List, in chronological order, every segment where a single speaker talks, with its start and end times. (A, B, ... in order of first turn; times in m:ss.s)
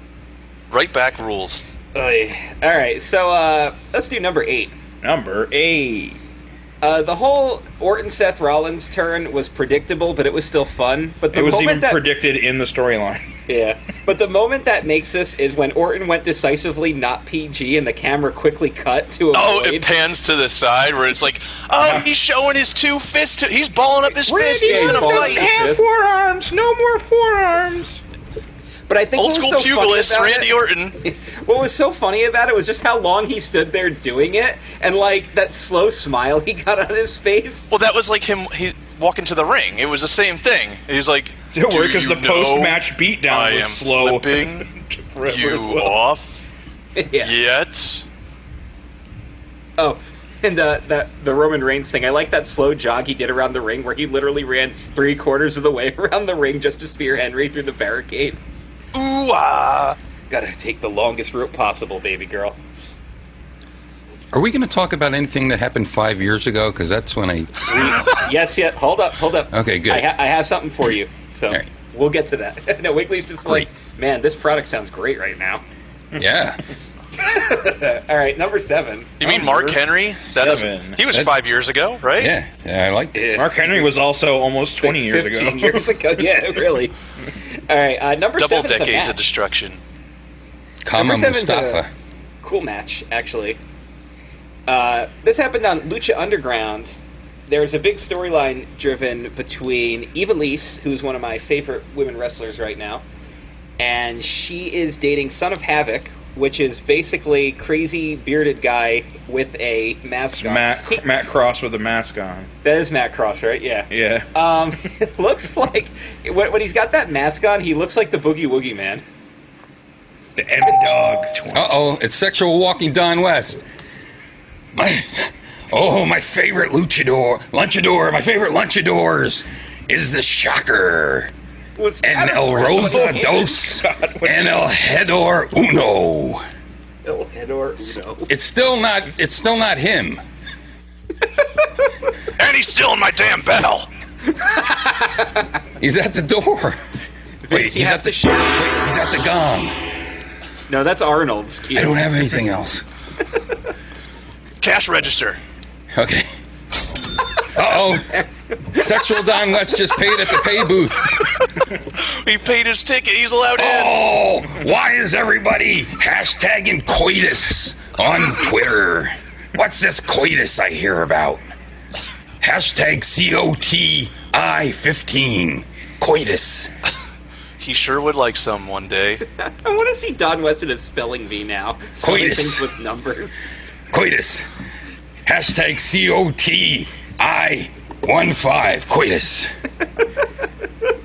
0:00.7-0:01.6 A
0:01.9-0:04.7 B
0:05.0-0:06.2 C
0:06.8-0:12.0 B
0:11.3-0:13.2 C
0:13.5-0:19.9 B
0:19.3-0:25.5 A
0:21.8-0:22.1 C
0:24.3-0:28.0 C
0:24.6-0:25.8 B
0:28.9-0:37.7 B
0:29.2-0:30.9 A
0:37.7-0:44.6 A
0:41.5-0:45.9 C
0:45.2-0:46.5 A
0:47.0-0:47.3 B
0:47.2-0:48.0 A
0:49.8-0:58.4 B
0:58.9-1:00.0 A
1:00.3-1:02.6 B
1:04.3-1:08.1 D
1:07.7-1:15.6 B
1:09.5-1:10.1 D
1:16.2-1:16.6 D
1:17.1-1:19.2 B
1:19.2-1:22.3 A
1:19.2-1:21.0 C
1:22.2-1:23.3 D
1:23.1-1:24.0 B
1:23.4-1:25.9 C
1:24.8-1:29.2 B
1:28.4-1:29.8 A
1:30.8-1:31.9 D
1:31.0-1:31.8 B
1:32.4-1:33.6 B
1:34.7-1:43.0 B
1:43.8-1:51.0 B
1:50.4-1:52.5 C
1:52.6-1:59.0 B
1:53.9-1:54.3 C
2:00.4-2:01.7 C
2:01.5-2:03.6 D
2:04.7-2:11.3 D
2:11.8-2:13.6 B
2:12.0-2:16.4 D
2:12.8-2:14.6 C
2:17.0-2:18.3 B
2:18.3-2:20.2 D
2:22.4-2:23.9 A
2:24.3-2:25.5 B
2:25.8-2:26.8 D
2:27.4-2:28.5 B
2:27.5-2:29.8 D
2:30.7-2:32.1 B
2:31.7-2:32.8 D
2:34.6-2:35.4 A
2:35.9-2:36.3 D
2:37.4-2:38.1 D
2:37.6-2:40.4 B
2:38.7-2:41.3 D
2:42.0-2:44.0 A
2:43.6-2:51.4 D
2:52.4-2:56.7 D
2:57.6-2:59.2 A
2:59.4-3:03.4 B
3:02.0-3:02.6 D
3:03.9-3:04.5 D
3:05.2-3:09.5 D